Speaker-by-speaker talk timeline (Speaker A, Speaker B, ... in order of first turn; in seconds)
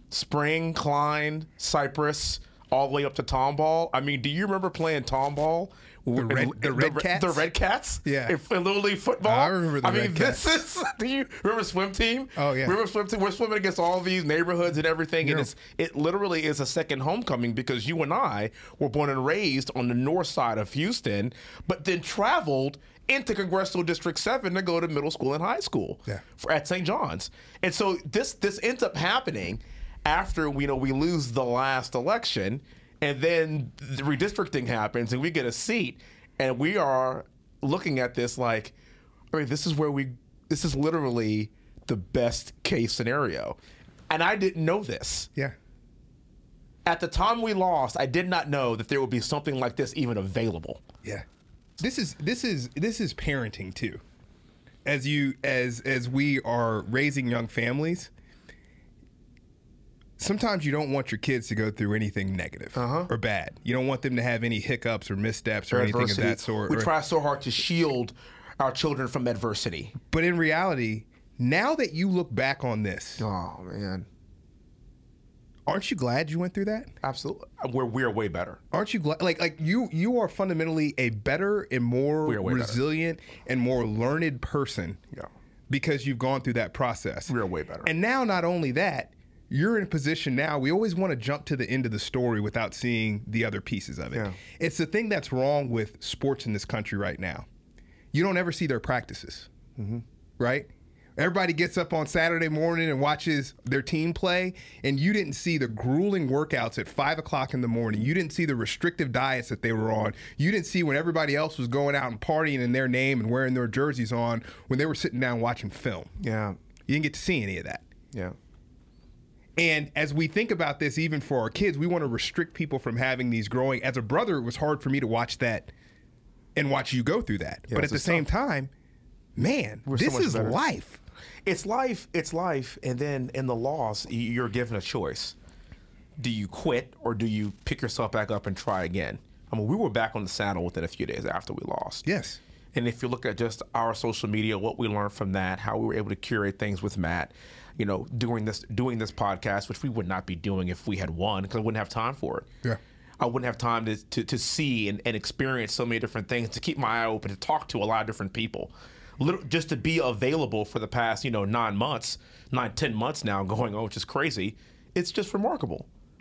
Speaker A: 0.1-38.8, 39.3-43.6, 44.1-45.3, 46.9-50.8, 62.8-63.1, 65.7-70.0, 73.2-74.1, 77.0-78.6, 82.3-82.8, 87.3-87.9, 99.8-100.0, 116.2-116.6, 127.7-128.3, 129.9-130.6, 131.4-135.3, 136.2-142.1, 142.7-152.5, 153.2-165.9
Speaker B: 6.2-7.5, 8.1-8.4, 9.2-10.6, 12.4-12.8, 15.2-15.5, 51.8-54.0, 54.9-58.1, 60.2-66.9, 70.0-73.2, 75.7-76.9, 78.7-85.0, 85.7-97.5, 98.1-99.5, 100.4-116.1, 116.9-117.8, 119.6-125.7, 126.5-128.7, 129.4-131.0, 142.1-142.4